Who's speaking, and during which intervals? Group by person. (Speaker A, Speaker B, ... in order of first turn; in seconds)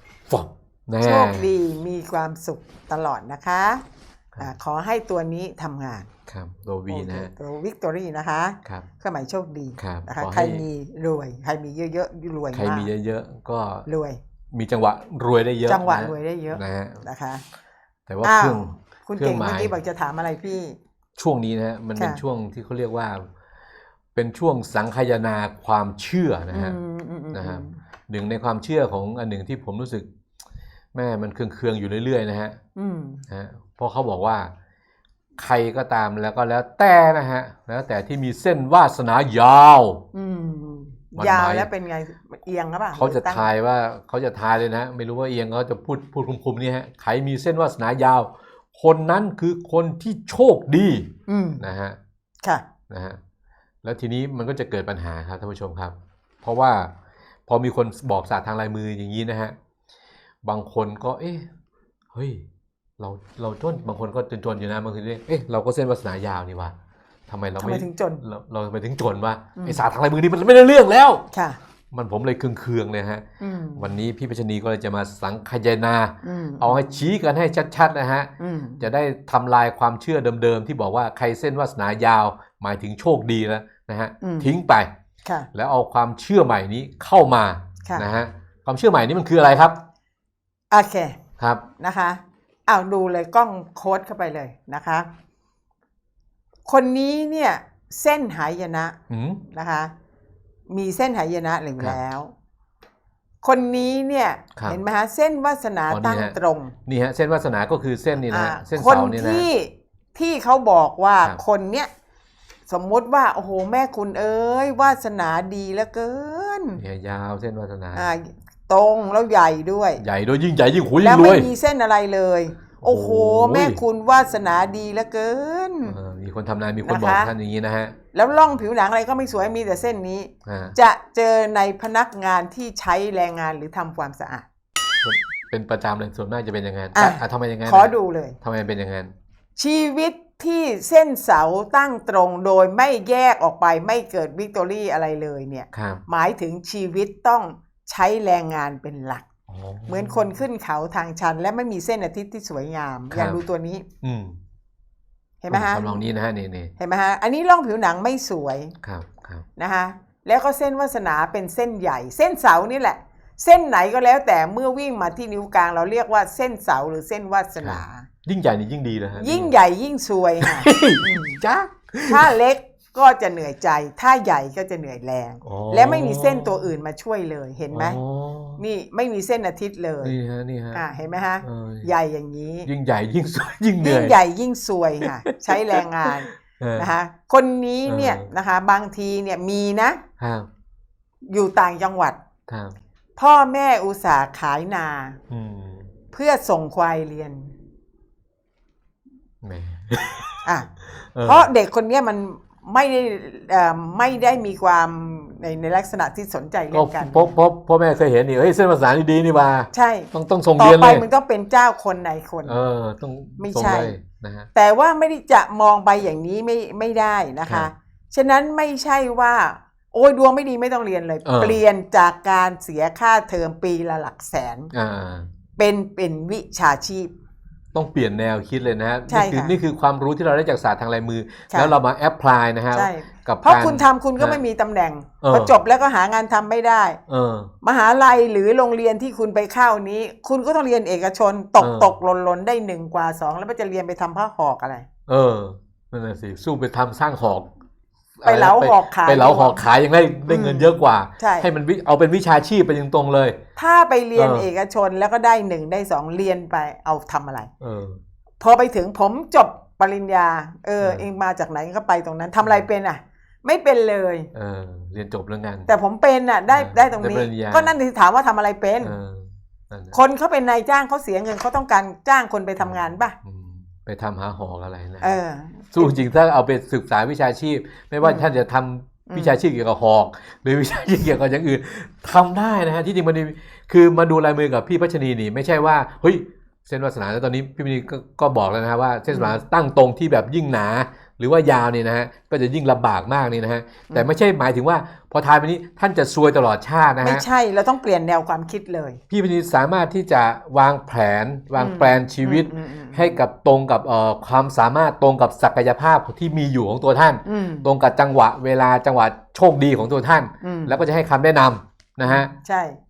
Speaker A: 0.3-1.5, 6.3-7.3, 9.8-10.6, 12.5-13.9, 14.5-17.1, 18.1-19.7, 21.2-23.3, 24.1-26.8, 27.3-30.1, 30.9-32.6, 33.3-34.5, 35.4-40.0, 41.2-41.7, 42.9-52.0, 52.9-53.2, 53.8-56.9, 57.5-59.5, 60.4-61.5, 62.1-62.5, 63.0-66.8, 67.3-71.3, 71.9-73.2, 73.8-84.9, 85.5-89.8, 91.4-91.7, 99.1-99.4, 105.9-109.5, 116.8-118.1, 120.0-121.5, 122.8-123.8, 125.8-128.0, 130.4-130.8, 135.0-139.1, 145.7-146.0, 149.5-150.3, 153.1-153.4, 154.0-154.4, 155.5-156.7, 158.8-159.5, 167.6-169.5, 170.4-172.3, 175.4-176.7, 177.7-178.6, 180.0-180.8, 181.4-181.9, 182.7-184.2, 185.0-186.9, 187.9-188.3, 190.2-190.5, 192.5-192.7, 195.3-195.9, 199.4-200.4, 201.2-201.5, 206.7-211.0, 212.4-214.5, 221.2-221.6, 224.7-225.3, 227.7-234.4, 235.2-235.5, 237.1-237.5, 241.6-241.9, 245.1-247.5, 248.2-253.4, 254.2-254.5, 257.6-258.0, 260.8-261.1, 264.3-265.7, 266.5-267.7, 268.8-270.0, 272.6-275.2, 275.7-297.2, 299.1-312.3
Speaker B: 1.0-3.8, 4.4-6.1, 6.9-12.9, 13.9-14.2, 15.7-17.4, 18.2-20.8, 22.0-22.2, 26.5-27.8, 32.8-33.2, 40.1-43.5, 51.3-51.6, 67.6-68.2, 69.6-69.8, 71.3-71.6, 73.4-73.9, 76.2-76.8, 78.4-78.8, 84.2-84.5, 90.7-91.2, 91.8-95.1, 96.7-99.0, 99.5-99.9, 100.7-102.3, 103.4-106.7, 108.3-111.9, 112.7-116.8, 118.0-120.0, 121.0-126.0, 126.8-127.3, 128.1-134.5, 136.9-138.4, 139.6-149.2, 149.9-153.9, 155.4-156.0, 156.8-158.7, 159.6-168.1, 169.2-171.4, 172.1-178.0, 178.6-180.2, 180.7-182.7, 183.8-190.0, 191.3-192.2, 193.2-195.2, 196.1-197.5, 200.4-200.7, 201.2-207.4, 209.7-212.6, 213.4-213.9, 214.5-224.7, 225.6-227.1, 229.1-229.6, 232.7-237.0, 237.6-244.9, 248.2-249.6, 250.3-251.5, 253.6-257.5, 258.4-264.3, 265.7-268.9, 269.9-273.1, 275.0-275.9, 278.0-278.3, 279.1-279.4, 289.1-289.4, 293.9-294.2, 297.0-299.0, 301.6-303.2, 307.2-307.7, 310.4-310.8, 312.1-312.8